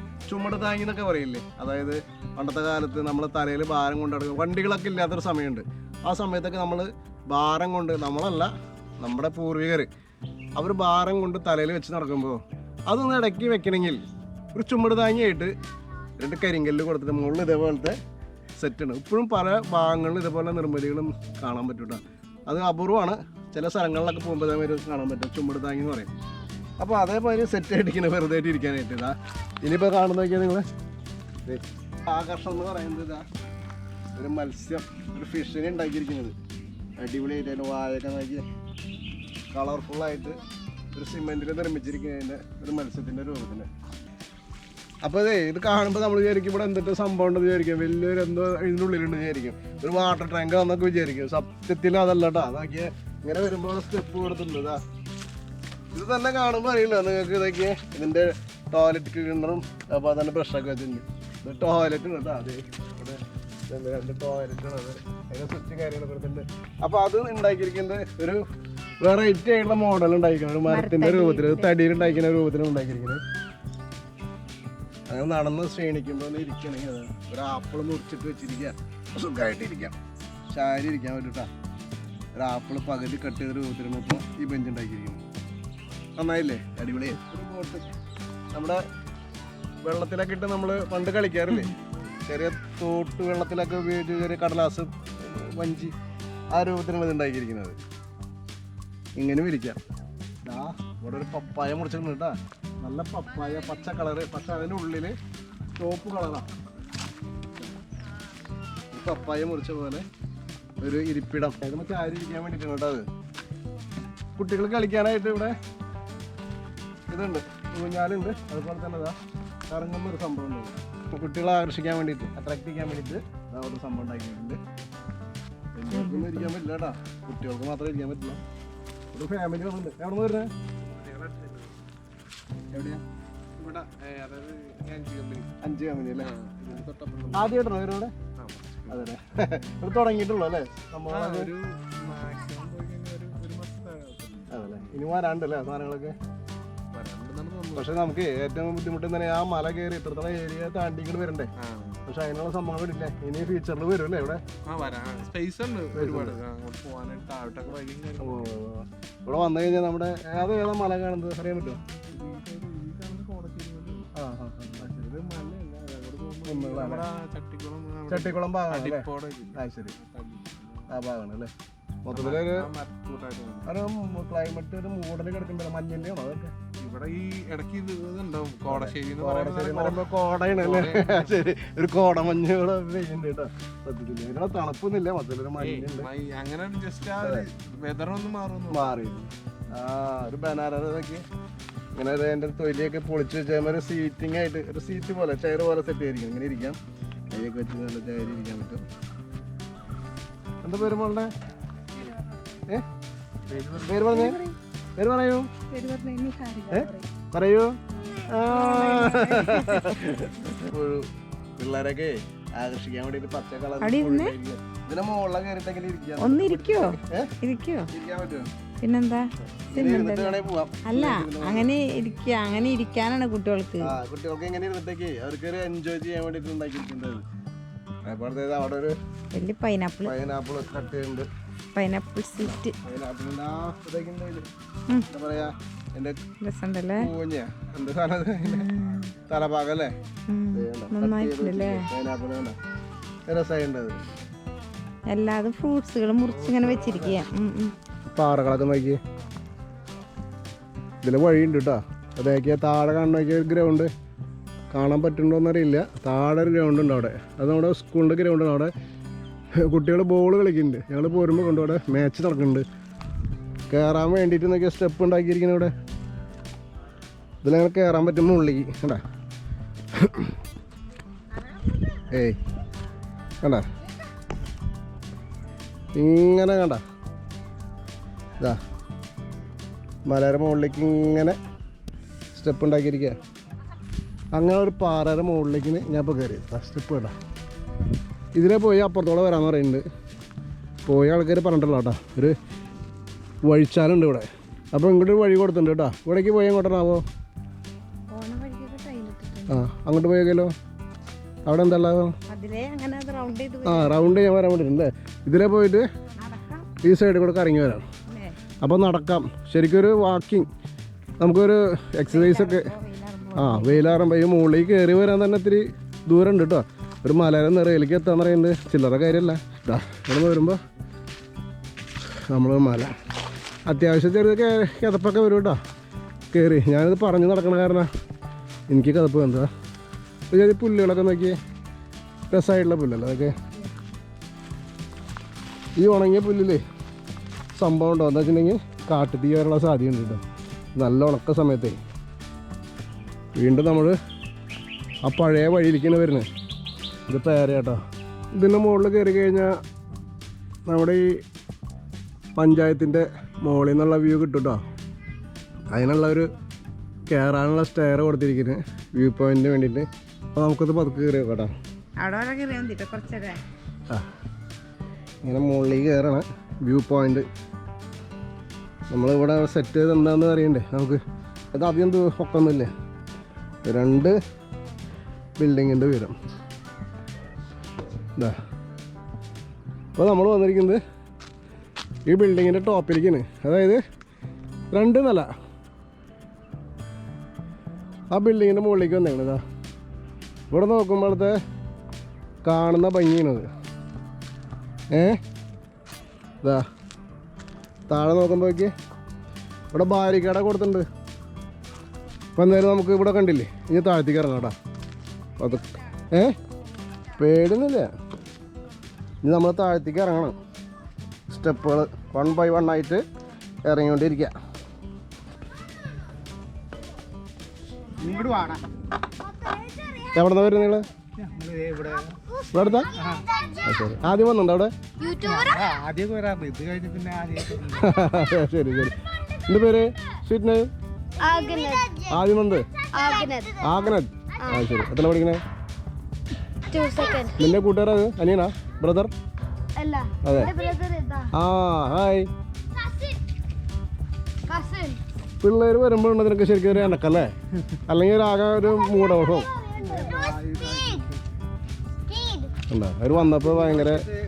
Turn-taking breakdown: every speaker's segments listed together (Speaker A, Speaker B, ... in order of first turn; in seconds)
Speaker A: 0.3-9.9, 10.6-14.0, 14.5-15.5, 16.2-18.0, 18.6-26.1, 26.8-30.6, 31.4-33.2, 34.1-36.3, 37.0-38.4, 39.5-40.4, 40.9-43.7, 45.0-54.8, 55.9-68.4, 69.0-73.2, 75.1-80.0, 80.5-81.5, 82.4-85.2, 86.2-87.8, 88.5-88.8, 89.8-95.9, 96.5-97.8, 99.2-99.8, 100.4-105.2, 105.7-106.5, 108.9-110.0, 110.8-113.0, 114.4-115.5, 117.1-119.2, 119.7-124.6, 125.7-128.4, 129.1-130.5, 135.6-136.3, 137.3-138.1, 138.9-141.5, 144.5-146.1, 147.7-151.5, 152.1-154.4, 155.9-156.4, 158.2-161.8, 164.1-165.0, 166.4-167.1, 168.1-169.9, 170.9-171.5, 172.0-172.7, 173.6-176.5, 178.7-186.1, 187.2-187.5, 188.7-191.2, 191.9-196.8, 197.3-198.8, 200.6-201.3, 203.8-204.4, 205.0-205.5, 206.7-207.7, 208.3-211.1, 211.6-217.3, 217.9-218.5, 219.7-221.7, 223.8-227.2, 228.1-228.9, 230.0-231.3, 232.4-234.4, 235.0-236.2, 236.9-238.7, 239.3-239.9, 240.5-242.6, 243.3-244.0, 246.3-247.2, 248.1-249.0, 251.0-253.9, 254.7-258.7, 259.6-262.6, 263.7-265.7, 267.4-269.0, 270.0-270.3, 272.1-272.4, 275.9-276.8, 280.1-281.4, 282.3-283.1, 284.3-287.1, 288.3-289.8, 290.9-292.4, 293.4-297.0, 299.5-300.5, 301.4-302.1, 303.6-305.9, 306.8-307.8, 308.6-310.5, 311.2-312.7, 313.3-320.6, 322.3-322.9, 323.7-325.6, 326.3-327.9, 328.7-329.5, 330.3-331.4, 332.3-333.4, 335.8-336.6, 337.6-340.2, 340.8-341.8, 343.4-343.9, 345.0-346.2, 347.1-347.8, 348.4-349.5, 350.7-351.1, 352.4-354.6, 355.7-356.3, 357.1-361.5, 365.2-367.2, 368.9-371.0, 371.5-372.7, 373.6-374.1, 375.4-376.1, 379.9-380.8, 382.1-383.8, 384.7-385.3, 388.1-389.4, 390.5-391.3, 392.4-393.4, 394.9-395.2, 397.9-398.7, 399.7-400.8, 402.4-404.5, 405.4-406.3, 407.2-407.9, 409.2-410.3, 411.3-413.0, 413.6-414.3, 420.1-420.8, 422.5-422.9, 423.6-424.7, 427.6-430.7, 432.1-432.7, 433.6-435.4, 437.4-439.1, 440.2-440.5, 441.3-442.3, 445.4-447.3, 447.8-449.5, 452.7-454.0
Speaker B: 70.7-72.2, 125.9-126.5, 204.0-204.6, 205.7-207.1, 208.1-210.0, 213.8-214.3, 216.2-217.9, 218.8-223.9, 229.3-230.1, 231.7-232.7, 236.4-237.1, 238.4-239.1, 240.3-241.9, 245.1-247.7, 298.1-299.6, 302.3-304.2, 306.2-306.7, 308.1-308.4, 312.1-314.1, 362.0-363.4
Speaker C: 130.8-131.7, 132.7-133.0, 133.6-135.5, 136.2-137.6, 138.4-139.1, 141.1-144.8, 146.9-147.9, 151.6-152.0, 154.7-158.5, 162.1-164.1, 164.7-170.9, 172.1-173.7, 176.8-181.4, 185.6-189.0, 203.5-204.0
Speaker D: 418.0-418.6, 421.2-422.2, 425.3-427.8, 450.1-450.5
Speaker E: 419.3-420.1, 423.2-423.7, 425.0-425.8, 431.2-432.1, 432.9-433.7, 434.4-434.7, 436.7-437.5, 439.7-441.3, 442.8-443.2, 444.4-445.0, 448.8-451.1, 452.1-452.5